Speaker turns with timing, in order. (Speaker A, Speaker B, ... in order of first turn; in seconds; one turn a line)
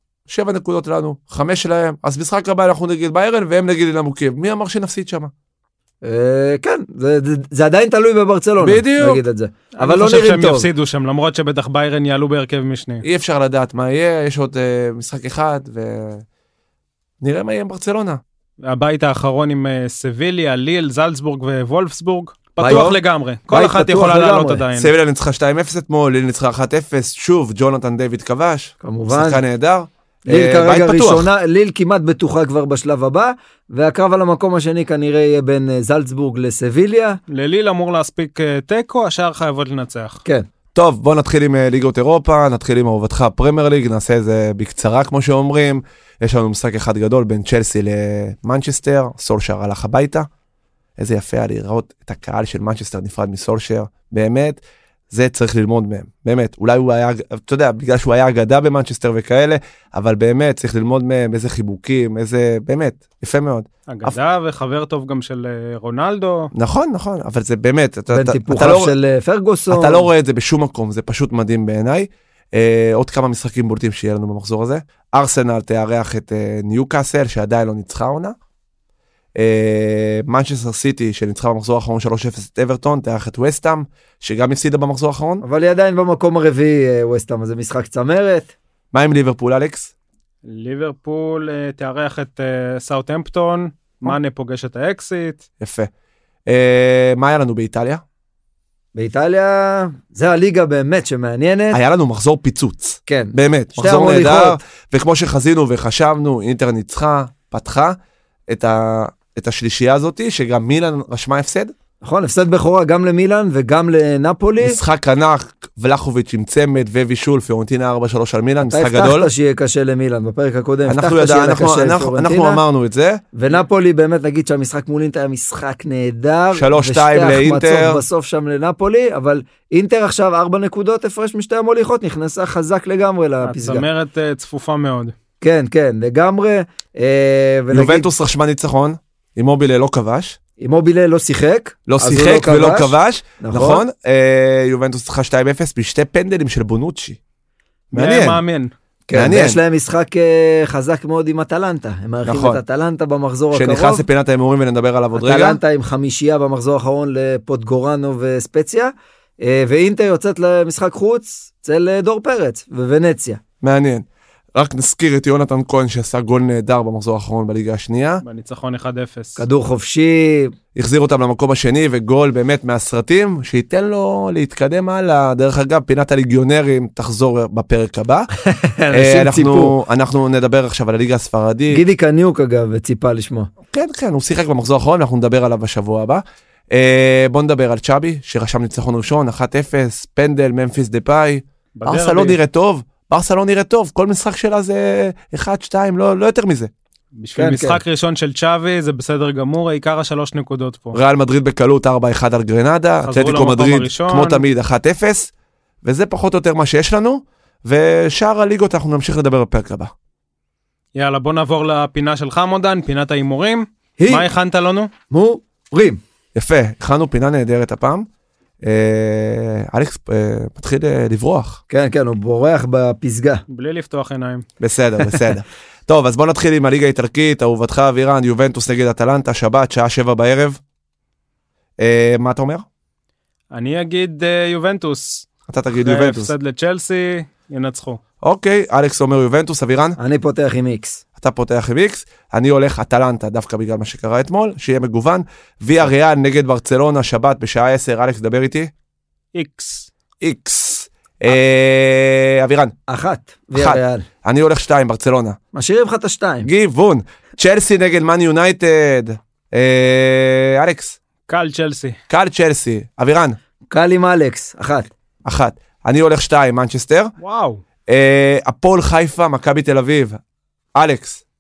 Speaker A: 0.3-5.3
Speaker B: 6.0-10.7
Speaker A: 8.6-9.2
Speaker C: 9.8-13.0
Speaker A: 13.0-16.2
Speaker A: 17.2-18.2
Speaker C: 18.6-24.9
Speaker B: 22.6-23.0
Speaker A: 22.6-23.0
Speaker B: 23.5-24.6
Speaker A: 24.8-31.3
Speaker B: 28.8-29.4
Speaker B: 30.3-37.2
Speaker C: 37.3-40.2
Speaker A: 40.8-50.3
Speaker A: 51.0-64.2
Speaker C: 63.9-66.5
Speaker A: 66.5-68.9
Speaker B: 68.1-70.1
Speaker A: 69.7-78.3
Speaker A: 79.4-85.4
Speaker B: 85.4-88.5
Speaker A: 88.9-89.9
Speaker C: 90.5-95.4
Speaker A: 95.6-95.9
Speaker A: 96.5-98.0
Speaker B: 99.0-101.8
Speaker A: 101.7-108.0
Speaker B: 103.1-104.6
Speaker A: 108.5-111.7
Speaker B: 112.0-114.8
Speaker A: 114.6-119.3
Speaker B: 118.6-122.6
Speaker A: 120.9-123.2
Speaker B: 123.3-133.8
Speaker A: 126.5-128.0
Speaker C: 133.4-135.1
Speaker B: 135.4-138.1
Speaker A: 137.7-140.4
Speaker B: 140.6-143.8
Speaker A: 141.9-147.2
Speaker C: 147.9-148.7
Speaker A: 147.9-148.4
Speaker B: 149.1-154.1
Speaker A: 149.1-149.6
Speaker A: 152.3-152.6
Speaker A: 153.5-155.6
Speaker B: 155.1-163.4
Speaker A: 163.6-168.2
Speaker C: 168.2-169.4
Speaker B: 169.4-170.5
Speaker A: 170.8-178.3
Speaker B: 178.4-179.8
Speaker A: 178.9-181.8
Speaker B: 181.7-183.5
Speaker A: 183.7-196.7
Speaker C: 191.8-192.4
Speaker C: 197.2-201.0
Speaker B: 197.4-197.8
Speaker A: 200.9-205.3
Speaker C: 203.1-204.4
Speaker A: 205.8-209.9
Speaker C: 210.9-214.9
Speaker B: 214.0-214.3
Speaker B: 215.1-216.0
Speaker A: 216.3-218.1
Speaker A: 218.6-221.6
Speaker B: 221.7-223.4
Speaker C: 223.5-224.5
Speaker A: 224.6-230.6
Speaker A: 231.8-232.7
Speaker C: 233.5-238.0
Speaker A: 235.5-236.3
Speaker A: 238.2-240.0
Speaker B: 240.0-241.0
Speaker A: 241.2-248.7
Speaker C: 249.3-249.9
Speaker A: 250.2-252.8
Speaker B: 252.9-254.1
Speaker A: 253.6-255.4
Speaker B: 255.5-256.5
Speaker A: 256.4-261.0
Speaker C: 261.3-262.0
Speaker A: 262.1-263.4
Speaker B: 263.7-264.9
Speaker A: 265.2-267.1
Speaker C: 267.2-267.6
Speaker A: 267.9-270.2
Speaker A: 270.8-271.2